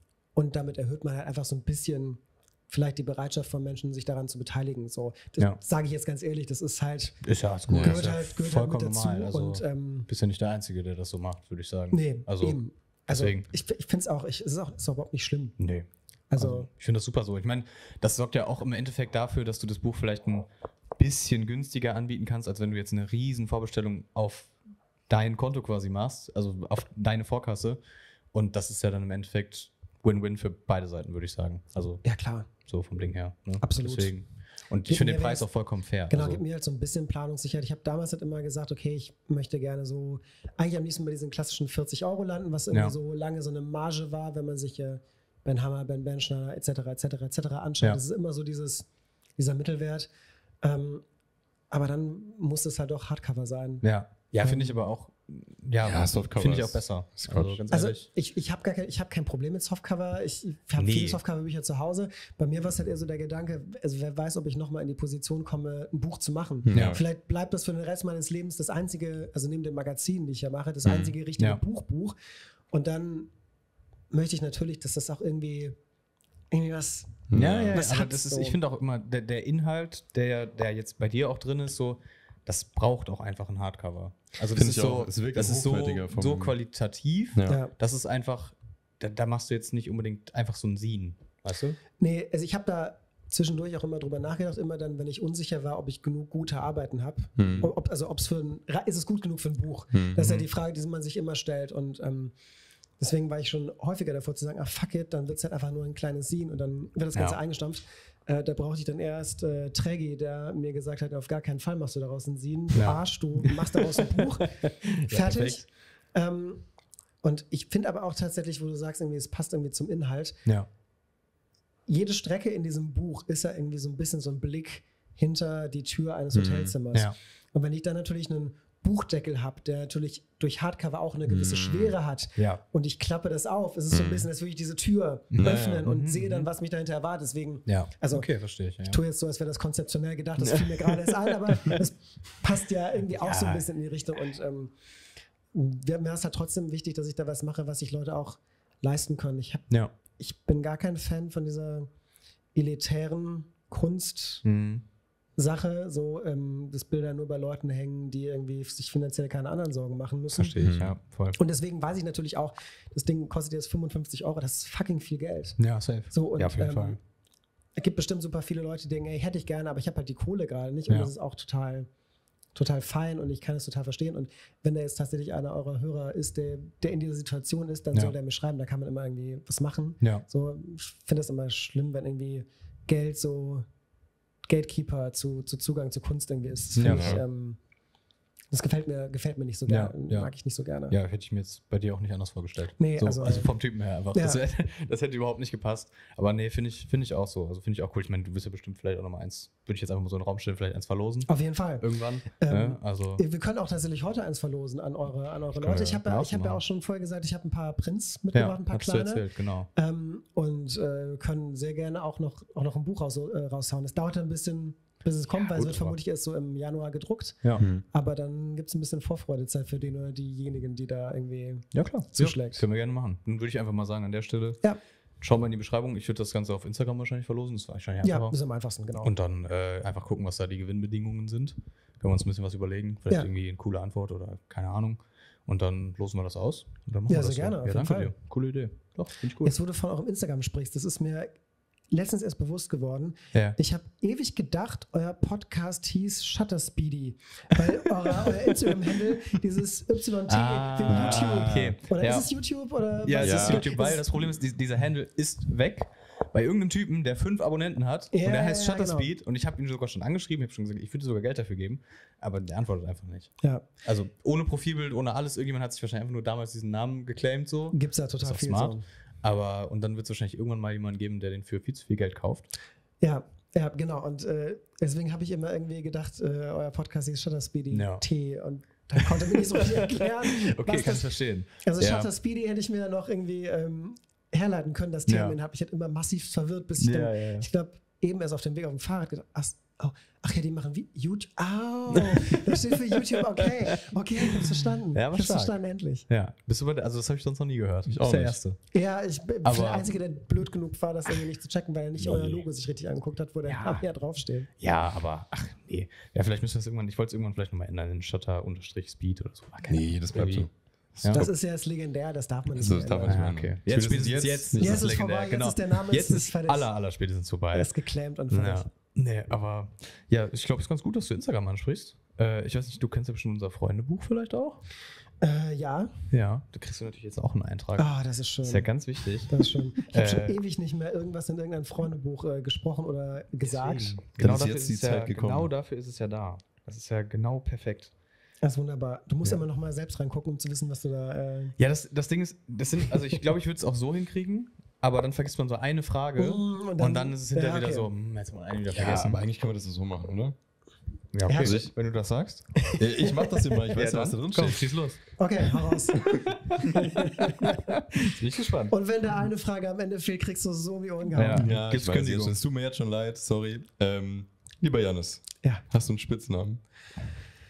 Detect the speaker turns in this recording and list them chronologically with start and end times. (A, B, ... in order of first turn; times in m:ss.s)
0:00.3-0:07.2 A
0:07.2-0:12.6 B
0:07.7-0:08.0 C
0:07.8-0:10.1 A
0:11.9-0:15.6 A
0:13.1-0:13.4 B
0:15.6-0:24.6 B
0:16.3-0:16.7 A
0:25.1-0:27.8 B
0:28.3-0:36.4 B
0:32.0-0:32.5 A
0:33.6-0:34.1 A
0:34.8-0:50.1 A
0:50.6-0:51.0 A
0:51.7-0:53.8 A
0:53.8-0:58.1 B
0:54.4-0:54.7 A
0:55.8-0:57.6 C
0:57.7-1:12.1 A
1:00.8-1:01.2 B
1:06.6-1:07.0 C
1:06.7-1:07.0 B
1:10.8-1:11.6 B
1:12.7-1:13.3 A
1:14.1-1:15.8 A
1:16.5-1:18.6 A
1:17.3-1:17.8 C
1:17.3-1:31.8 B
1:24.5-1:26.5 C
1:27.3-1:27.6 C
1:32.0-1:42.3 A
1:37.4-1:37.7 C
1:37.4-1:37.7 B
1:39.9-1:40.3 C
1:40.2-1:40.4 B
1:43.0-1:56.6 A
1:52.7-1:55.7 B
1:57.2-2:00.4 A
2:01.9-2:18.3 A
2:06.3-2:06.7 C
2:11.3-2:11.9 C
2:13.9-2:14.3 C
2:15.3-2:16.5 B
2:15.4-2:15.8 C
2:17.6-2:19.0 B
2:18.8-2:24.7 A
2:23.2-2:23.6 B
2:25.5-2:31.9 A
2:32.5-2:34.4 A
2:34.4-2:34.8 B
2:35.4-2:40.6 A
2:40.4-2:41.4 B
2:40.6-2:40.9 C
2:41.3-2:47.0 A
2:45.6-2:47.0 B
2:47.8-2:51.9 A
2:52.5-3:03.7 A
3:04.4-3:07.6 A
3:06.7-3:07.2 B
3:06.8-3:07.2 C
3:08.5-3:10.9 A
3:09.6-3:23.2 B
3:12.8-3:14.4 A
3:21.3-3:42.6 A
3:25.5-3:26.6 B
3:28.3-3:29.7 B
3:35.3-3:36.0 B
3:37.6-3:37.8 C
3:41.7-3:48.4 B
3:48.0-3:49.1 A
3:49.0-3:59.6 B
3:57.1-3:58.1 A
3:59.4-4:01.4 A
4:01.9-4:14.4 A
4:10.3-4:12.3 B
4:10.9-4:11.7 C
4:13.0-4:32.5 B
4:13.2-4:13.6 C
4:18.1-4:19.1 A
4:27.7-4:28.8 A
4:33.0-4:56.1 A
4:37.7-4:38.0 B
4:39.0-4:42.1 B
4:45.1-4:45.4 B
4:46.8-4:47.5 B
4:52.1-4:52.5 B
4:54.2-4:58.6 B
4:57.8-4:58.4 C
4:58.7-5:04.5 A
4:59.4-4:59.9 B
5:02.1-5:02.4 C
5:03.4-5:03.8 B
5:04.5-5:11.3 B
5:09.7-5:11.3 C
5:11.1-5:13.3 A
5:12.6-5:14.9 C
5:13.0-5:17.7 B
5:14.6-5:16.7 A
5:17.5-5:18.7 A
5:18.3-5:24.6 B
5:25.2-5:25.9 A
5:26.1-5:29.3 B
5:27.8-5:34.0 A
5:29.9-5:30.4 B
5:33.4-5:37.9 B
5:34.2-5:35.5 C
5:38.4-5:41.5 A
5:41.6-5:49.2 B
5:46.2-5:47.9 A
5:48.7-5:50.4 C
5:51.1-5:52.6 B
5:51.2-5:51.6 A
5:51.3-5:51.7 C
5:52.6-5:55.0 C
5:52.7-5:53.3 A
5:53.7-5:55.5 B
5:55.2-5:57.6 A
5:57.4-5:58.7 B
5:58.7-6:01.5 A
6:01.1-6:02.4 B
6:01.4-6:07.1 C